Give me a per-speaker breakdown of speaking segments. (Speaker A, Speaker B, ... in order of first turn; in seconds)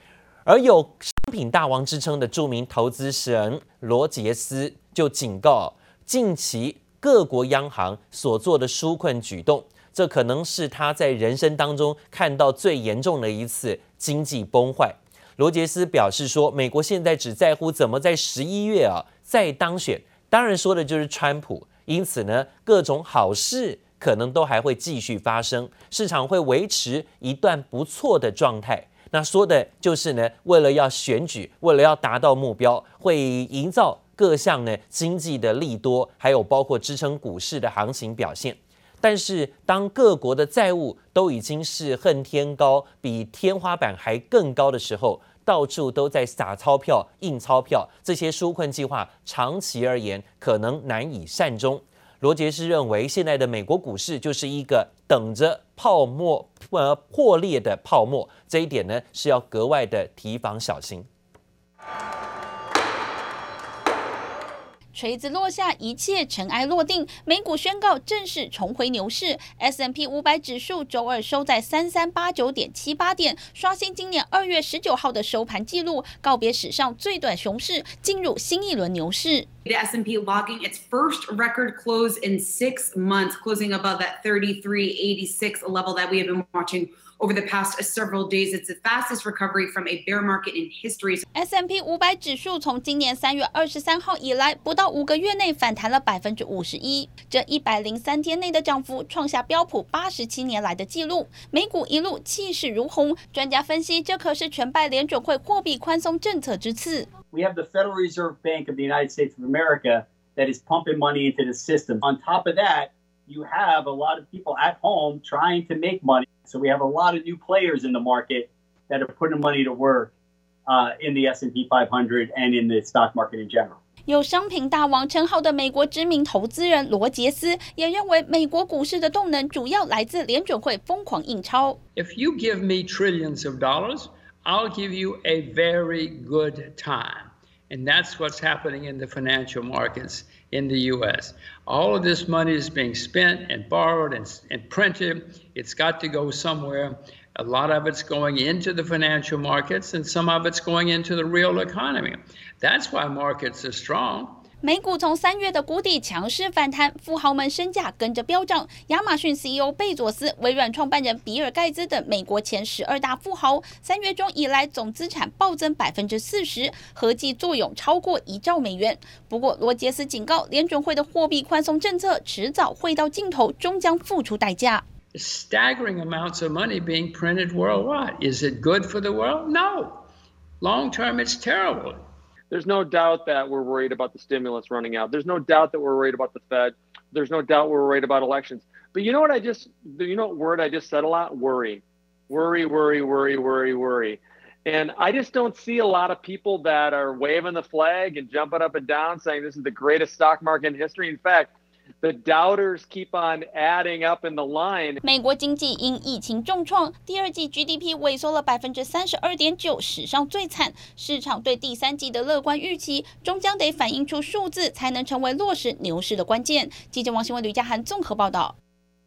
Speaker A: 0.5-61.1
Speaker B: 64.9-79.5, 91.3-107.1, 124.1-131.8, 154.6-174.8, 205.0-218.5
Speaker C: 79.7-91.2
Speaker D: 107.3-120.1, 120.7-123.8
Speaker E: 132.0-154.4, 175.1-180.1, 180.6-182.1
Speaker F: 182.5-205.0